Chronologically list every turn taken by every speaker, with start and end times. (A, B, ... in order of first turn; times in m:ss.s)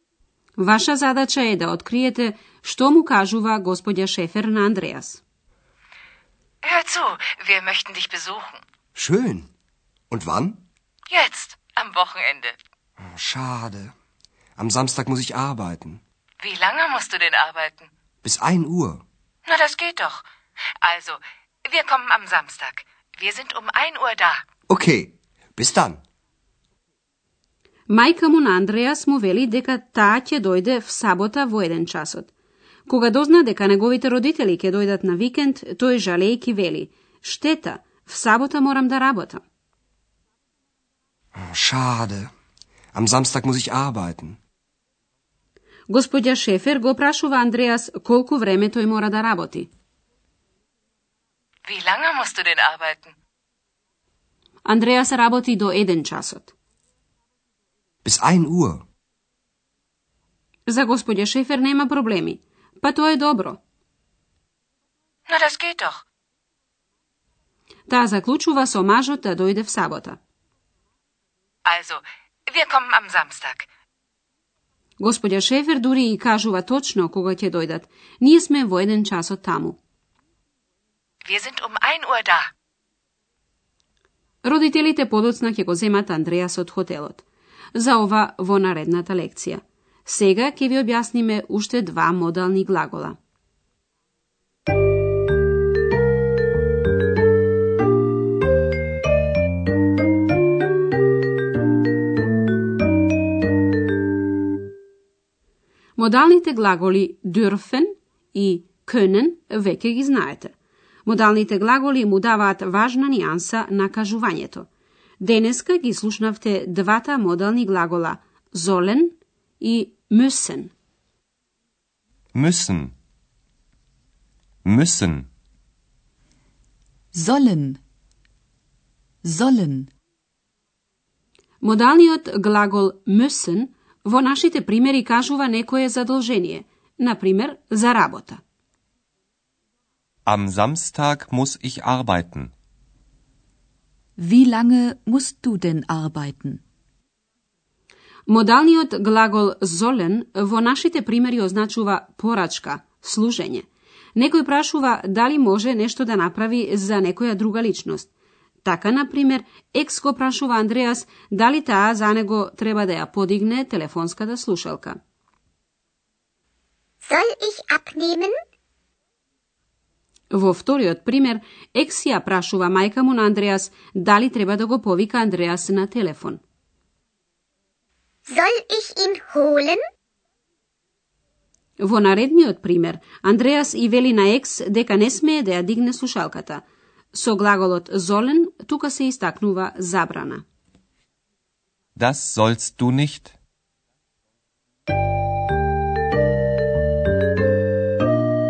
0:00.6-0:05.2 A
0:06.6-0:08.6 B
0:09.0-0:09.5 C
0:10.1-0:10.6 C
0:11.1-0:12.6 B
0:13.0-0:13.9 C
0:14.6-0:16.0 C
0:16.4-0:17.9 B
0:18.2-0:19.0 C
0:19.5-0:20.2 B
0:20.8-0:24.4 B
0:24.7-0:26.0 C
0:27.9-0:32.3 A
0:32.9-0:39.4 A
0:41.4-0:42.3 C
0:42.9-0:44.4 C
0:45.9-0:49.7 A
0:51.7-0:53.1 B
0:54.6-0:56.5 A
0:58.0-0:58.8 C
1:00.7-1:03.6 A
1:05.3-1:06.0 B
1:07.9-1:10.2 A
1:11.6-1:13.7 B
1:15.0-1:19.8 A
1:21.2-1:22.5 B
1:24.4-1:27.2 A
1:27.8-1:33.2 A
1:46.0-1:50.6 A
1:51.1-1:54.7 A
1:55.2-2:00.7 A
2:02.3-2:02.9 D
2:04.6-2:05.3 D
2:07.1-2:07.8 E
2:09.2-2:09.9 E
2:11.6-2:18.4 A
2:20.3-2:22.5 D
2:24.2-2:26.6 E
2:28.3-2:38.1 A
2:38.6-2:45.0 A
2:47.0-2:48.4 F
2:50.3-2:56.4 A
2:58.3-2:59.8 F
3:01.8-3:10.4 A
3:12.0-3:13.3 D